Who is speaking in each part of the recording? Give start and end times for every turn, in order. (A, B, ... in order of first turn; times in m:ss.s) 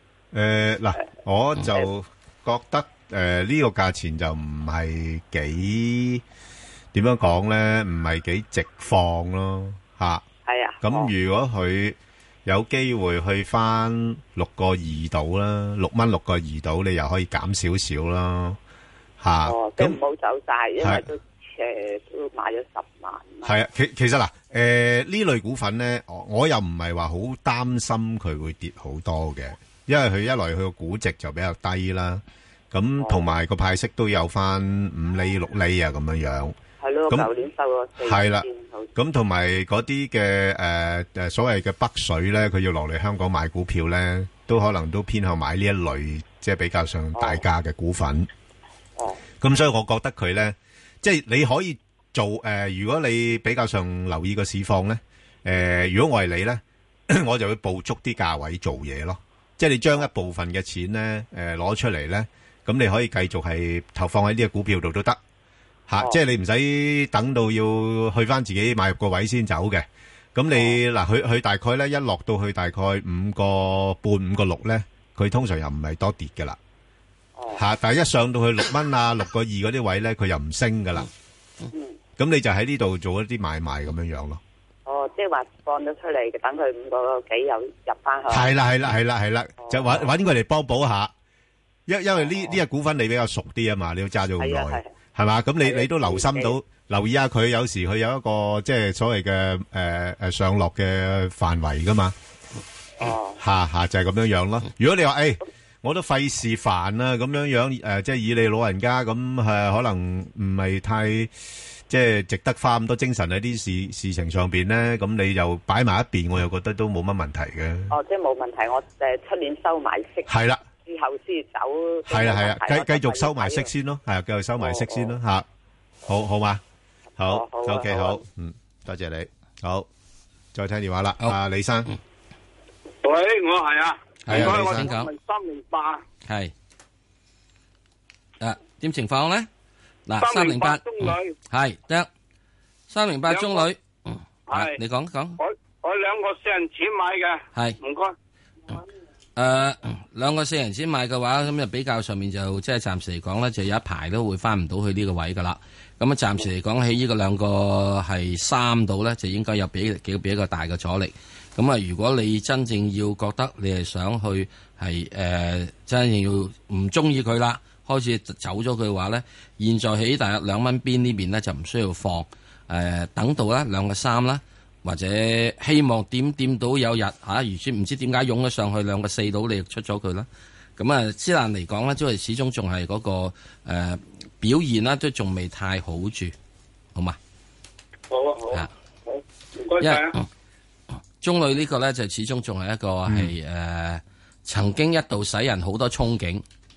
0:00.3-0:06.2 A
0:06.9-0:10.2 A
0:10.5-0:11.1 B
0:10.8-0:18.6 A
0:19.2-0:20.0 A
0:19.4-0:23.5 B
0:20.8-0:21.1 A
0:23.4-0:36.6 A
0:36.8-0:38.9 B
0:38.0-0:48.3 A
0:47.2-0:47.4 B
0:49.4-1:05.2 A
1:05.9-1:16.6 A
1:10.5-1:10.8 B
1:17.4-1:17.6 B
1:17.6-1:21.1 A
1:22.2-1:24.4 A
1:24.9-1:28.5 B
1:28.3-1:31.1 A
1:29.6-1:30.1 B
1:31.9-1:42.2 A
1:32.2-1:32.5 B
1:34.4-1:34.8 B
1:35.6-1:36.6 B
1:43.0-1:43.4 B
1:43.4-1:51.3 A
1:51.9-1:57.9 A
1:57.9-2:00.3 B
2:00.3-2:00.6 A
2:00.8-2:03.7 B
2:02.1-2:05.4 A
2:04.6-2:05.2 B
2:06.1-2:06.6 A
2:07.2-2:08.2 B
2:07.2-2:09.9 A
2:10.5-2:11.9 A
2:13.0-2:16.0 C
2:14.2-2:15.1 D
2:14.3-2:14.9 A
2:16.3-2:16.5 D
2:18.4-2:19.5 D
2:20.1-2:22.1 D
2:20.2-2:21.3 C
2:22.9-2:25.4 D
2:23.3-2:23.7 C
2:24.5-2:24.8 C
2:25.4-2:28.1 C
2:29.4-3:06.4 D
3:08.1-3:10.2 C
3:09.8-3:10.2 D
3:11.2-3:16.4 D
3:13.1-3:13.3 A